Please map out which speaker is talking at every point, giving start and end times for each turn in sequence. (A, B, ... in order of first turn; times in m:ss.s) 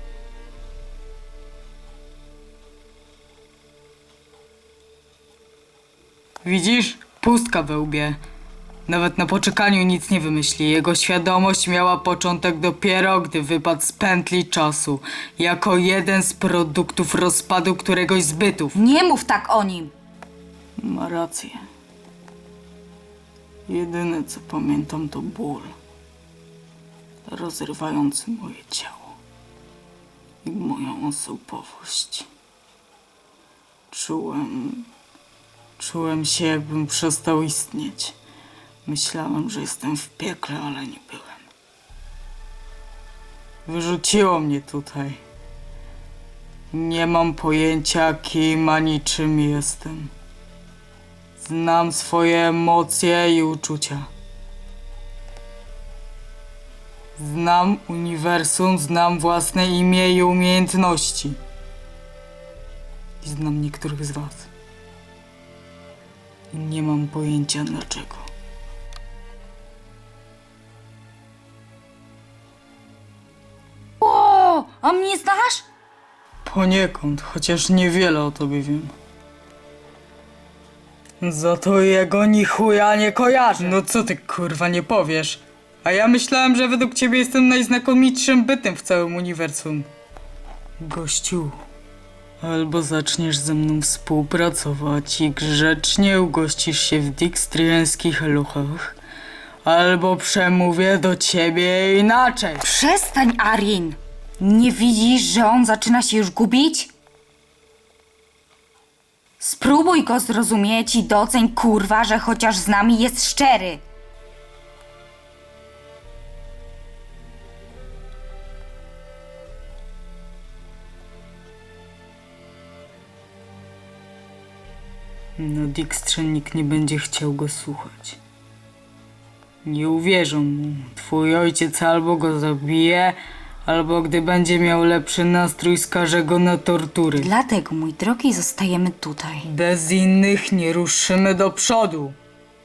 0:06.4-0:08.2 A
0:08.9-0:18.8 A
0:18.8-0:19.9 B
0:20.8-0:21.6 A
0:23.7-0:25.8 A
0:27.3-0:29.2 A
0:30.4-0:32.3 A
0:33.9-0:34.9 A
0:35.8-0:38.2 A
0:38.8-0:41.4 A
0:43.6-0:45.2 A
0:46.7-0:50.1 A
0:51.4-0:54.1 A
0:57.2-1:01.4 A
1:03.2-1:04.5 A
1:06.5-1:08.3 A
1:14.0-1:15.7 B
1:16.4-1:18.9 A
1:21.2-1:29.9 A
1:30.8-1:31.6 A
1:32.4-1:39.0 A
1:39.6-1:42.7 A
1:42.6-1:46.9 B
1:49.4-1:53.8 B
2:05.4-2:08.2 A
2:09.6-2:17.3 A
2:17.2-2:19.5 B
2:19.4-2:22.2 A